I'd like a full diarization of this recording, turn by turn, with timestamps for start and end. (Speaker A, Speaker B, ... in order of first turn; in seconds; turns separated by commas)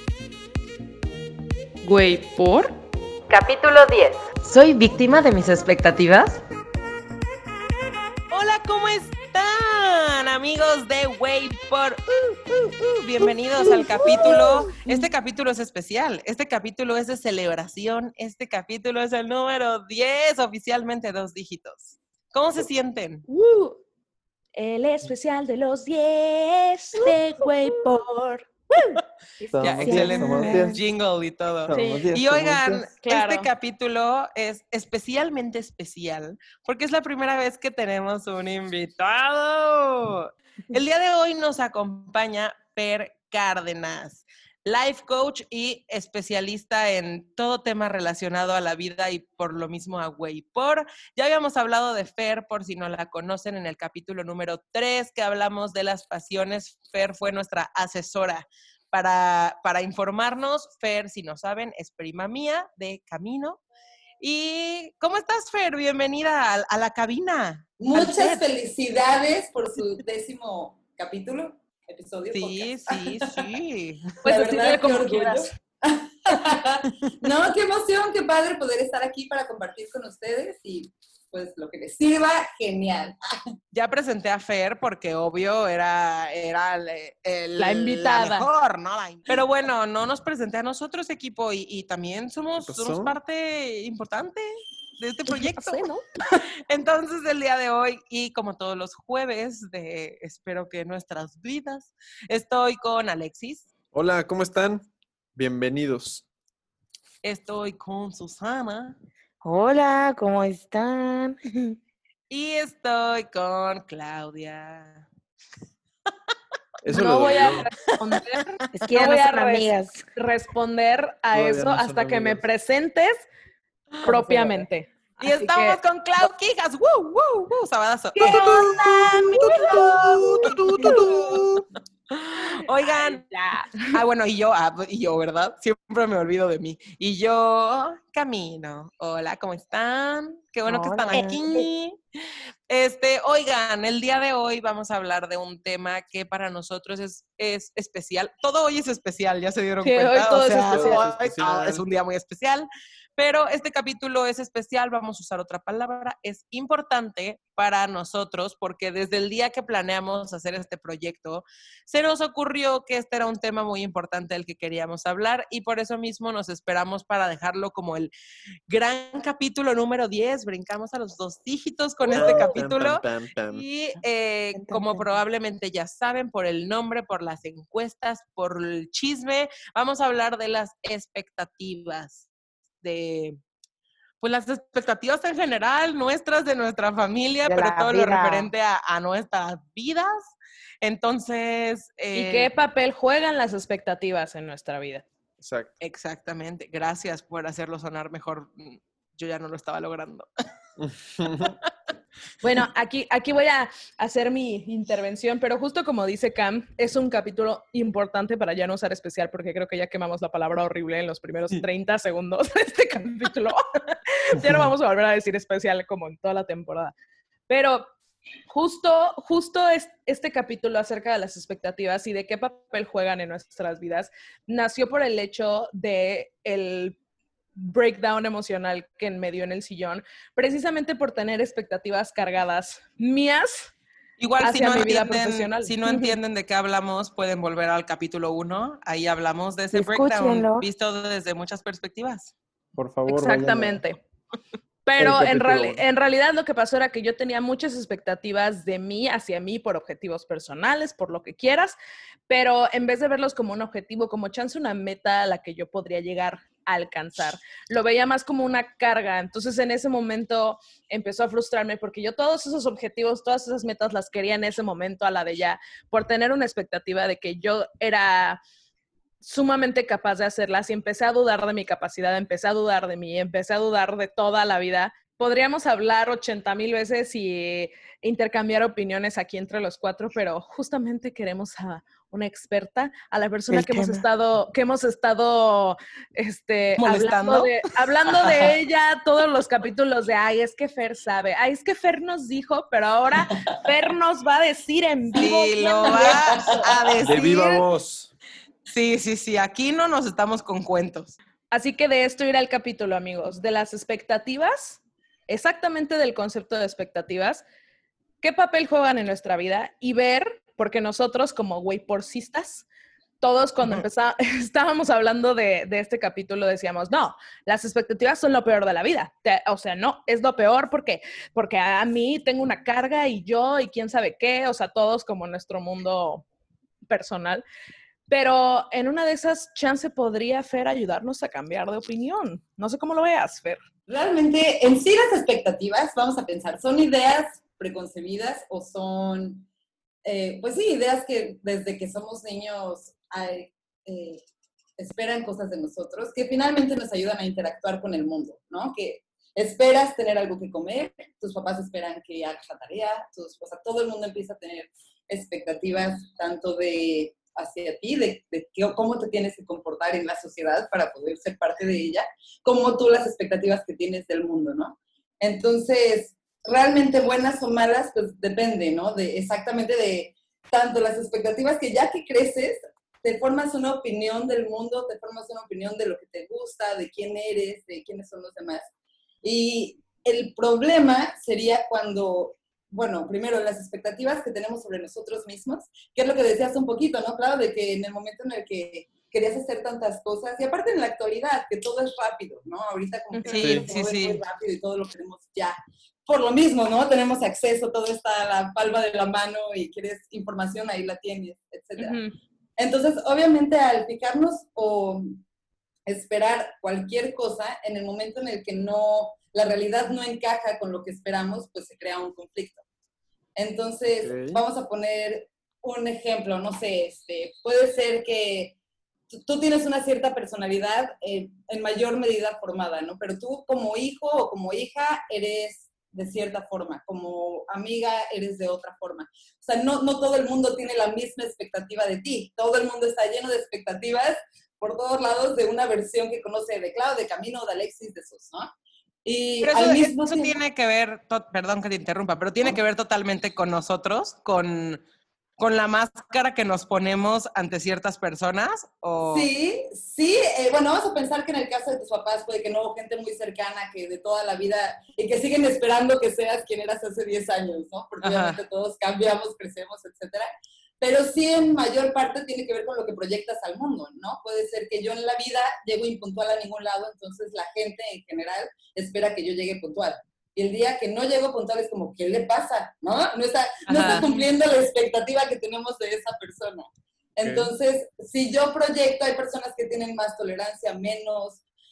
Speaker A: 3.3-6.4, Speaker A: 8.3-23.2, Speaker B: 13.8-14.8, Speaker C: 23.3-23.7, Speaker C: 24.6-28.5, Speaker C: 29.4-30.6, Speaker D: 29.5-30.8, Speaker A: 29.6-63.6, Speaker B: 29.6-30.6, Speaker D: 31.7-32.8, Speaker C: 31.7-32.1, Speaker C: 33.0-33.5, Speaker A: 64.2-68.4, Speaker E: 67.8-73.4, Speaker A: 72.3-74.2, Speaker C: 74.2-75.5, Speaker E: 74.2-83.2, Speaker A: 83.7-94.4, Speaker C: 87.6-88.5, Speaker D: 92.6-93.1, Speaker A: 95.0-103.7, Speaker B: 95.3-96.0, Speaker D: 103.9-106.2, Speaker A: 107.2-109.0, Speaker B: 109.4-111.4, Speaker A: 112.3-115.1, Speaker D: 116.8-117.7, Speaker C: 116.9-123.2, Speaker B: 118.7-120.0, Speaker D: 121.3-122.4, Speaker C: 124.0-125.8, Speaker B: 124.0-124.6, Speaker A: 125.2-131.5, Speaker C: 128.2-128.6, Speaker B: 128.2-131.4, Speaker C: 129.4-129.7, Speaker A: 132.1-133.2, Speaker A: 133.8-142.0, Speaker B: 140.7-141.7, Speaker A: 142.7-168.1, Speaker C: 149.8-151.1, Speaker D: 150.7-151.8, Speaker A: 168.7-182.3, Speaker D: 172.1-173.7, Speaker B: 172.2-172.4, Speaker B: 174.5-175.1, Speaker A: 182.8-183.4, Speaker A: 184.2-192.5, Speaker B: 187.4-188.5, Speaker C: 192.1-195.1, Speaker D: 195.4-195.7, Speaker A: 195.8-200.3, Speaker D: 200.8-201.5, Speaker C: 202.4-216.9, Speaker C: 217.5-217.9, Speaker C: 218.5-227.0, Speaker C: 227.6-233.7, Speaker A: 234.2-242.3, Speaker C: 234.4-236.2, Speaker B: 239.7-240.7, Speaker D: 242.8-243.8, Speaker C: 243.1-244.0, Speaker C: 244.8-251.8, Speaker D: 245.0-245.8, Speaker C: 252.3-268.4, Speaker C: 269.2-296.3, Speaker B: 283.5-284.1, Speaker A: 286.8-287.5, Speaker A: 288.1-288.5, Speaker A: 295.2-297.6, Speaker E: 295.8-297.3, Speaker D: 297.0-298.1, Speaker A: 298.7-301.2, Speaker C: 301.5-307.4, Speaker C: 308.2-312.7, Speaker C: 313.2-326.2, Speaker C: 326.9-327.4, Speaker C: 328.1-333.6, Speaker E: 333.9-339.5, Speaker E: 340.1-344.2, Speaker E: 344.8-378.7, Speaker E: 379.2-395.6, Speaker C: 393.1-393.5, Speaker A: 393.3-394.2, Speaker D: 393.4-393.7, Speaker E: 396.1-402.0, Speaker C: 401.8-402.2, Speaker E: 402.6-405.2, Speaker E: 405.9-412.6, Speaker E: 413.4-418.6, Speaker D: 414.0-414.4, Speaker E: 419.1-438.5, Speaker E: 439.1-440.4, Speaker A: 439.4-444.8, Speaker A: 445.4-449.3, Speaker E: 449.1-460.3, Speaker A: 458.0-458.4, Speaker E: 460.8-481.4, Speaker A: 473.7-474.1, Speaker D: 477.2-477.5